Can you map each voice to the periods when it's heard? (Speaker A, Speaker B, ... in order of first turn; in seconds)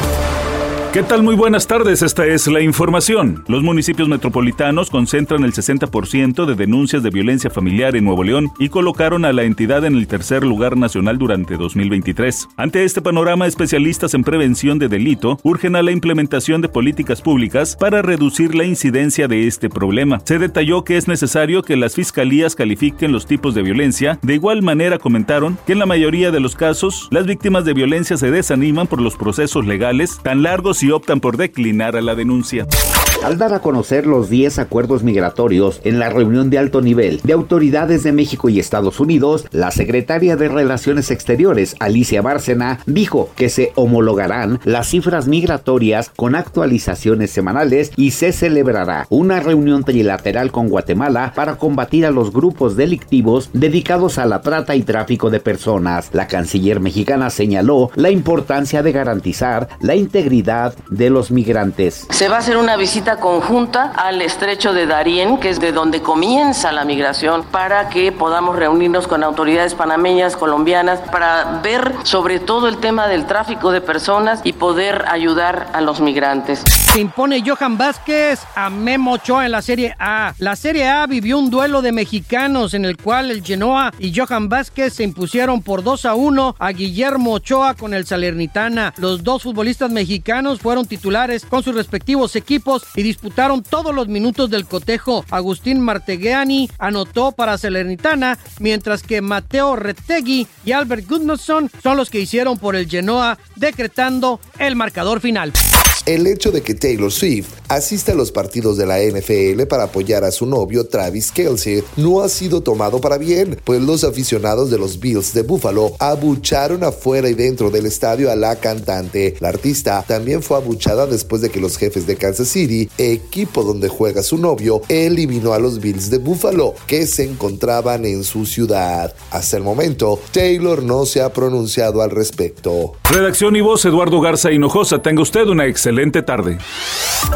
Speaker A: 0.9-32.7, 133.1-136.6
Speaker B: 33.2-62.0
Speaker C: 62.1-76.7
Speaker D: 76.9-105.6
Speaker E: 106.0-132.9